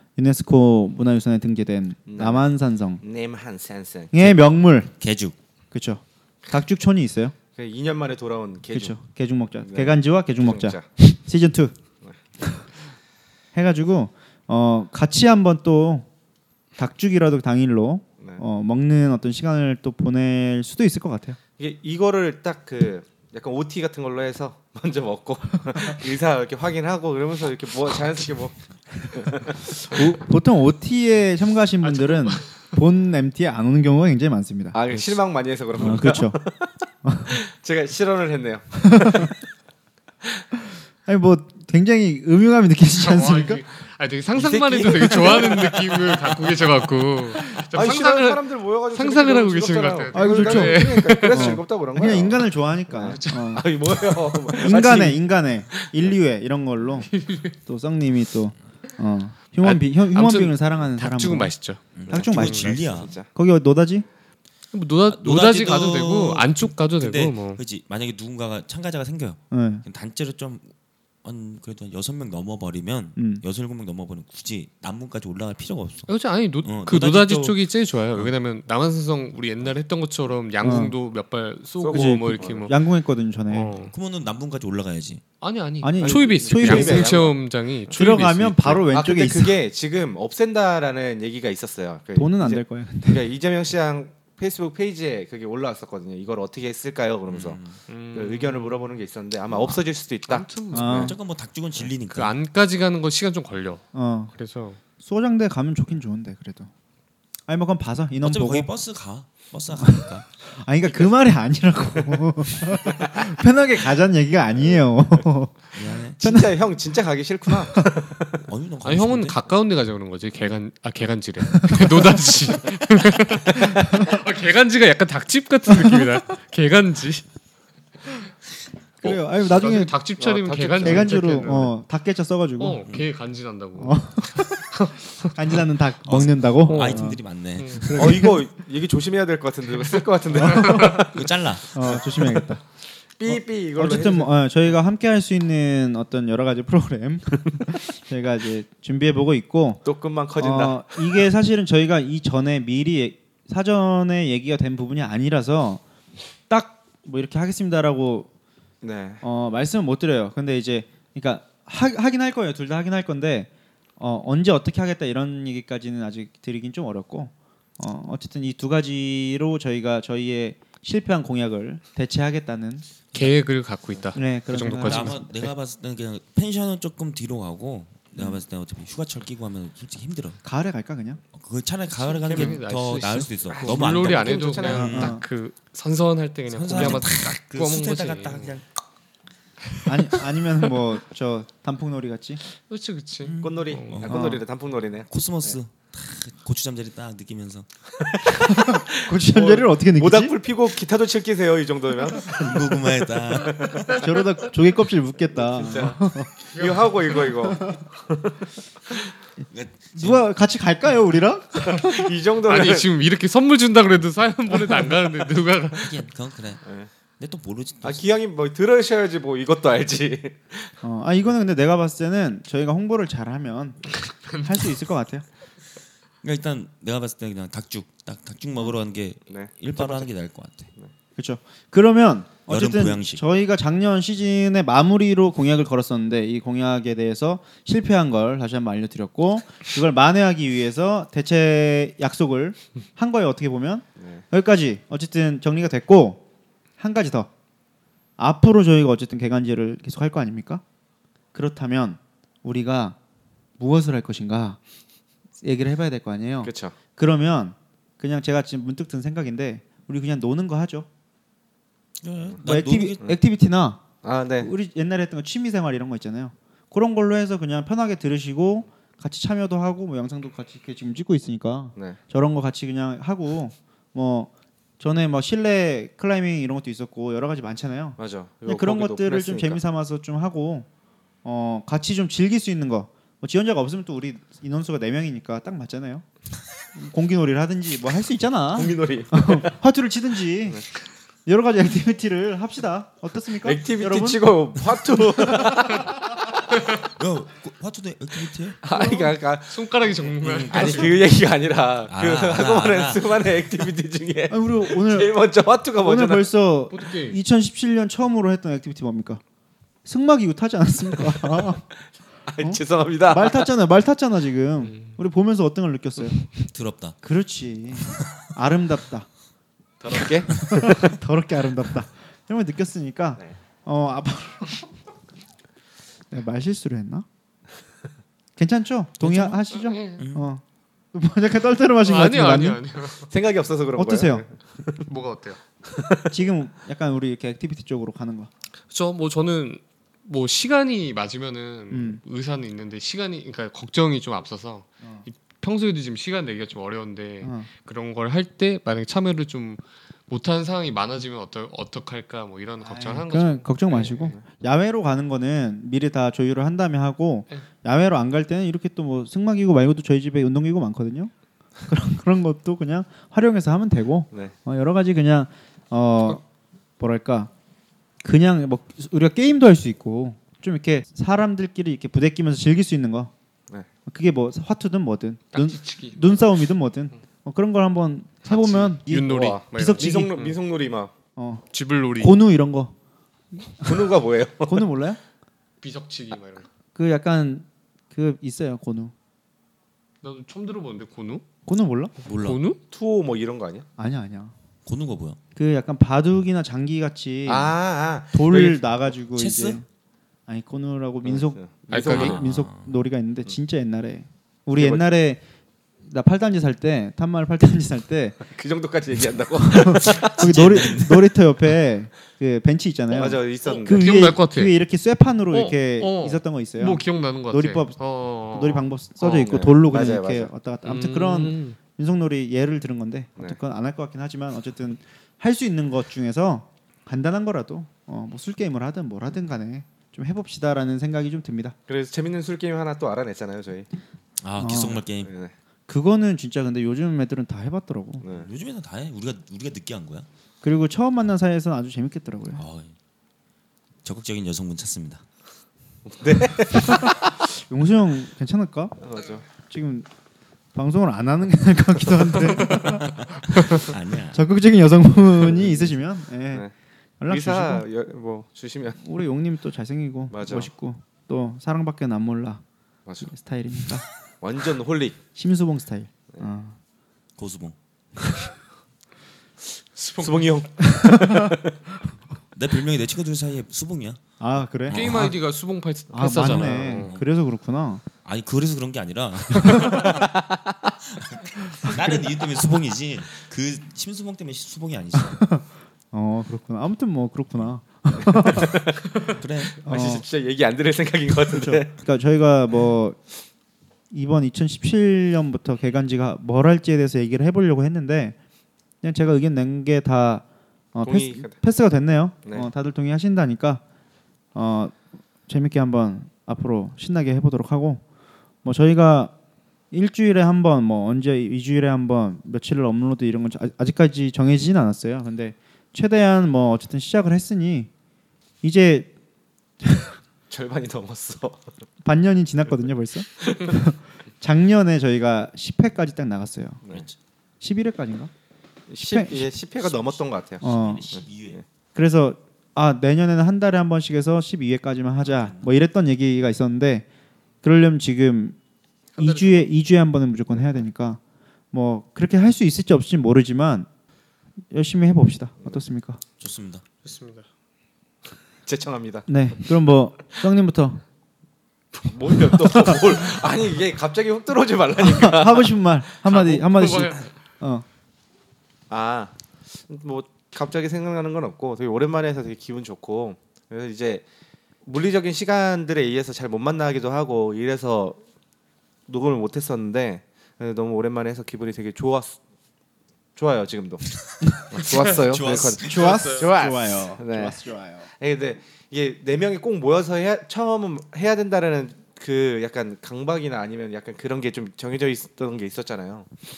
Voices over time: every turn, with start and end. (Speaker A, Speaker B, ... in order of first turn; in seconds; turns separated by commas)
Speaker A: 0.2-3.0, Speaker B: 2.1-2.4, Speaker B: 3.0-4.1, Speaker A: 4.1-4.9, Speaker C: 5.0-5.3, Speaker A: 5.7-7.3, Speaker B: 7.5-9.0, Speaker A: 8.7-11.7, Speaker B: 9.6-10.8, Speaker A: 13.5-16.1, Speaker A: 16.8-21.4, Speaker B: 21.6-30.0, Speaker A: 29.9-34.8, Speaker D: 31.8-32.4, Speaker B: 34.7-36.7, Speaker A: 35.8-36.4, Speaker A: 37.0-37.4, Speaker B: 37.3-39.3, Speaker A: 38.9-39.3, Speaker A: 41.0-43.6, Speaker D: 43.0-51.6, Speaker B: 44.4-46.3, Speaker B: 47.6-56.1, Speaker A: 50.1-53.7, Speaker A: 54.6-61.5, Speaker D: 57.1-57.5, Speaker D: 59.6-61.8, Speaker C: 61.9-63.1, Speaker B: 62.1-63.3, Speaker A: 62.1-62.8, Speaker D: 62.4-62.7, Speaker A: 63.3-64.0, Speaker D: 64.7-67.6, Speaker C: 65.1-70.7, Speaker A: 69.5-69.8, Speaker C: 71.2-76.1, Speaker A: 73.2-73.4, Speaker D: 76.1-82.8, Speaker C: 76.6-77.6, Speaker A: 80.6-80.9, Speaker B: 81.8-82.7, Speaker A: 81.9-83.7, Speaker D: 83.5-83.9, Speaker C: 83.9-85.2, Speaker D: 85.4-88.8, Speaker A: 85.8-87.3, Speaker B: 86.0-87.3, Speaker A: 87.9-89.6, Speaker B: 88.9-97.6, Speaker A: 92.2-93.2, Speaker C: 97.3-97.8, Speaker D: 97.9-98.9, Speaker B: 98.1-101.1, Speaker D: 100.3-101.1, Speaker A: 100.7-101.2, Speaker C: 100.8-102.3, Speaker D: 102.1-104.8, Speaker A: 103.9-104.3, Speaker A: 105.0-106.7, Speaker A: 107.5-108.7, Speaker C: 108.2-110.3, Speaker A: 109.8-116.5, Speaker B: 112.8-113.2, Speaker C: 115.7-116.2, Speaker B: 116.2-118.4, Speaker A: 117.5-117.8, Speaker C: 118.5-119.4, Speaker D: 118.8-127.2, Speaker A: 121.7-122.2, Speaker A: 129.0-129.9, Speaker D: 129.0-131.7, Speaker B: 130.2-131.7, Speaker A: 130.8-132.8, Speaker D: 132.6-134.1, Speaker A: 133.8-134.4, Speaker D: 134.7-135.3, Speaker A: 135.3-137.2, Speaker C: 136.0-138.1, Speaker D: 136.7-138.3, Speaker B: 137.9-141.2, Speaker A: 140.4-141.1, Speaker D: 140.5-141.0, Speaker C: 141.1-141.8, Speaker A: 141.7-142.6, Speaker B: 141.8-142.4, Speaker B: 143.2-144.3, Speaker A: 143.2-149.8, Speaker B: 149.8-151.2, Speaker A: 150.4-155.8, Speaker A: 156.5-158.3, Speaker B: 158.8-159.2, Speaker A: 159.2-172.8, Speaker D: 173.1-175.3, Speaker A: 174.1-175.3, Speaker C: 174.7-180.4, Speaker A: 180.4-181.2, Speaker C: 181.3-185.2, Speaker D: 182.0-188.5, Speaker B: 183.5-184.9, Speaker A: 184.6-185.2, Speaker C: 186.5-188.6, Speaker A: 189.8-192.4, Speaker D: 192.7-194.1, Speaker C: 193.2-194.3, Speaker B: 193.4-195.6, Speaker A: 194.1-194.4, Speaker C: 195.1-197.7, Speaker B: 198.0-202.5, Speaker A: 198.5-200.3, Speaker C: 202.2-203.8, Speaker B: 203.3-204.0, Speaker A: 203.9-206.3, Speaker B: 205.3-208.4, Speaker C: 209.5-210.2, Speaker A: 209.9-212.1, Speaker B: 211.7-212.9, Speaker D: 212.4-215.9, Speaker C: 215.7-216.6, Speaker B: 216.6-216.9, Speaker C: 217.2-218.0, Speaker B: 217.8-220.8, Speaker A: 220.8-225.2, Speaker D: 224.1-224.4, Speaker C: 226.2-230.7, Speaker B: 229.3-230.1, Speaker A: 231.2-246.2, Speaker C: 232.5-233.2, Speaker B: 244.0-244.2, Speaker A: 246.8-247.3, Speaker A: 248.2-250.6, Speaker A: 251.3-252.9, Speaker A: 253.6-254.6, Speaker A: 255.4-260.9, Speaker B: 256.4-256.8, Speaker C: 262.0-263.0, Speaker A: 262.4-263.8, Speaker B: 264.0-264.5, Speaker A: 264.4-280.7, Speaker B: 278.0-279.6, Speaker A: 281.2-286.0, Speaker A: 286.7-290.6, Speaker B: 288.5-289.5, Speaker A: 291.2-295.7, Speaker B: 293.4-296.0, Speaker C: 296.6-298.6, Speaker B: 298.6-299.7, Speaker D: 298.7-300.9, Speaker C: 300.2-301.1, Speaker B: 300.5-306.3, Speaker C: 301.9-303.6, Speaker A: 304.3-305.1, Speaker A: 305.8-309.2, Speaker D: 306.7-307.2, Speaker A: 309.8-311.6, Speaker B: 312.3-313.5, Speaker A: 312.4-316.3, Speaker C: 316.5-317.0, Speaker A: 317.0-319.1, Speaker C: 317.8-318.2, Speaker B: 319.8-320.9, Speaker A: 320.3-324.7, Speaker A: 326.1-327.1, Speaker A: 328.4-332.6, Speaker D: 329.0-330.0, Speaker C: 330.0-330.3, Speaker D: 331.8-333.1, Speaker B: 333.1-334.8, Speaker A: 333.8-334.2, Speaker D: 334.8-335.4, Speaker B: 335.6-336.1, Speaker A: 336.1-338.3, Speaker D: 338.7-354.1, Speaker A: 341.7-342.0, Speaker A: 347.2-347.5, Speaker A: 352.6-361.1, Speaker B: 353.7-354.2, Speaker A: 361.7-366.2, Speaker A: 366.8-367.3, Speaker A: 368.0-373.1, Speaker A: 373.9-380.2, Speaker D: 375.3-376.2, Speaker B: 378.2-380.9, Speaker D: 378.9-380.4, Speaker A: 381.1-381.5, Speaker D: 381.5-382.2, Speaker A: 382.0-382.7, Speaker B: 383.6-384.7, Speaker A: 383.6-383.9, Speaker A: 384.4-385.0, Speaker D: 385.6-386.4, Speaker A: 386.8-388.9, Speaker D: 390.0-391.2, Speaker A: 391.4-391.9, Speaker C: 392.0-392.4, Speaker D: 392.1-392.6, Speaker B: 392.7-393.7, Speaker A: 393.8-394.3, Speaker C: 394.6-395.2, Speaker A: 395.4-397.6, Speaker B: 397.2-398.6, Speaker A: 398.1-399.6, Speaker C: 399.1-399.6, Speaker A: 400.3-405.2, Speaker B: 401.0-402.2, Speaker D: 401.7-402.1, Speaker C: 401.9-402.7, Speaker B: 404.6-404.8, Speaker A: 405.8-408.2, Speaker B: 408.3-410.2, Speaker A: 409.4-431.5, Speaker C: 410.0-411.2, Speaker B: 412.9-413.9, Speaker D: 413.5-414.5, Speaker D: 415.3-418.6, Speaker B: 419.0-420.3, Speaker D: 420.6-421.6, Speaker B: 431.7-433.7, Speaker C: 434.2-435.1, Speaker A: 434.4-434.8, Speaker B: 434.6-435.3, Speaker A: 435.7-438.0, Speaker B: 438.0-438.3, Speaker C: 438.1-440.1, Speaker A: 440.4-442.4, Speaker C: 442.4-442.7, Speaker C: 443.8-445.0, Speaker B: 445.9-447.1, Speaker A: 446.5-448.8, Speaker B: 448.8-449.2, Speaker A: 449.4-449.9, Speaker A: 450.5-456.5, Speaker C: 452.6-454.2, Speaker B: 455.3-455.7, Speaker A: 457.0-457.6, Speaker B: 457.1-458.9, Speaker A: 458.8-462.4, Speaker B: 460.1-460.5, Speaker B: 462.9-463.1, Speaker A: 463.0-463.8, Speaker B: 464.2-465.0, Speaker A: 465.1-466.5, Speaker C: 467.2-467.5, Speaker D: 469.8-470.4, Speaker B: 470.0-471.5, Speaker C: 472.3-474.0, Speaker A: 474.2-475.2, Speaker C: 474.6-475.1, Speaker D: 474.7-476.9, Speaker A: 475.9-477.8, Speaker C: 476.1-477.0, Speaker C: 478.0-480.1, Speaker A: 479.4-479.9, Speaker B: 479.9-480.4, Speaker C: 480.9-485.3, Speaker A: 484.9-488.6, Speaker B: 488.1-489.1, Speaker C: 489.1-489.6, Speaker A: 489.6-490.1, Speaker B: 489.6-491.7, Speaker A: 491.3-493.0, Speaker A: 493.9-498.1, Speaker A: 498.8-503.6, Speaker B: 500.8-501.4, Speaker A: 504.3-507.8, Speaker A: 508.4-509.1, Speaker A: 509.7-517.7, Speaker A: 518.4-518.9, Speaker A: 519.6-520.0, Speaker B: 520.3-521.5, Speaker A: 521.8-526.6, Speaker B: 523.2-523.5, Speaker C: 526.7-527.0, Speaker A: 527.4-528.1, Speaker B: 528.7-531.4, Speaker A: 528.8-529.3, Speaker C: 529.8-531.4, Speaker A: 530.4-530.9, Speaker A: 531.7-536.9, Speaker C: 535.0-535.5, Speaker A: 537.4-538.4, Speaker D: 539.0-539.5, Speaker A: 539.0-541.0, Speaker A: 541.5-543.7, Speaker A: 544.5-546.0, Speaker C: 546.2-546.6, Speaker D: 546.8-547.2, Speaker B: 548.5-549.1, Speaker A: 549.1-550.8, Speaker B: 551.8-555.5, Speaker A: 552.4-553.0, Speaker A: 554.8-557.6, Speaker D: 556.0-557.1, Speaker B: 558.7-564.0, Speaker B: 564.6-568.0, Speaker B: 568.9-572.2, Speaker B: 573.1-577.4, Speaker C: 574.5-576.1, Speaker A: 575.6-577.9, Speaker D: 575.7-576.3, Speaker B: 577.9-586.2